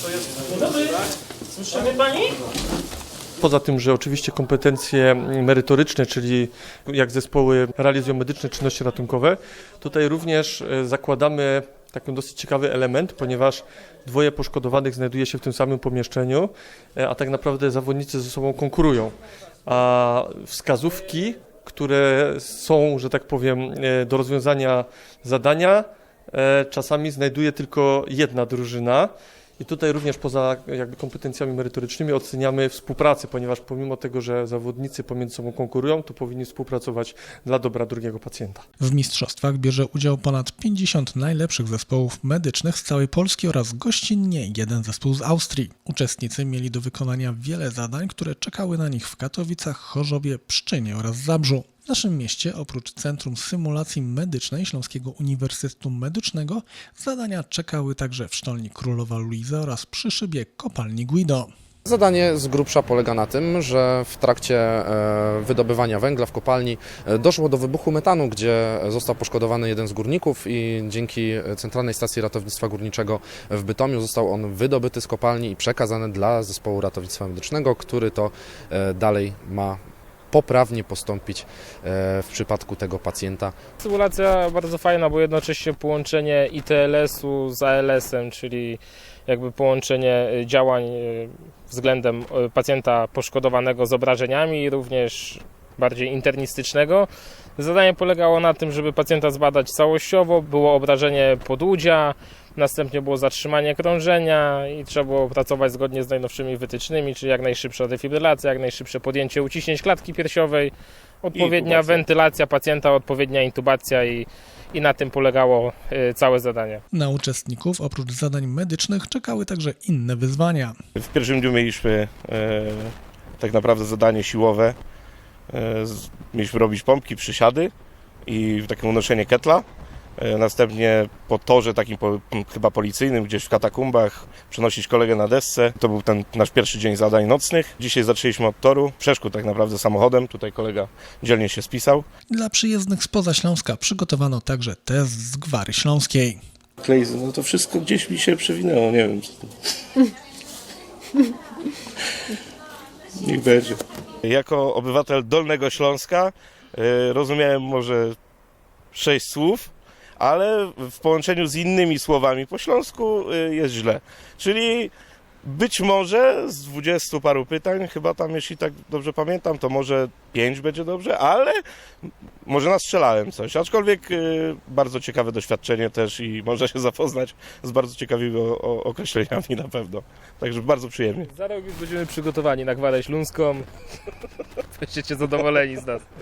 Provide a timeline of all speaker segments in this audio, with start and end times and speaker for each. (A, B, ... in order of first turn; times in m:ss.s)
0:03.4-0:19.2 A
0:19.7-0:38.6 A
0:38.8-1:01.5 B
1:01.8-1:19.8 C
1:20.3-1:23.5 C
1:23.8-1:56.8 D
1:51.3-1:52.0 E
1:56.9-2:00.8 B
2:01.0-2:04.8 E
2:05.5-2:07.7 E
2:08.3-2:09.7 E
2:10.2-2:22.1 E
2:22.3-2:26.4 B
2:26.8-2:29.5 E
2:33.2-2:38.2 E
2:38.9-2:44.9 E
2:45.4-3:01.3 E
3:01.3-3:03.7 D
3:04.8-3:06.0 D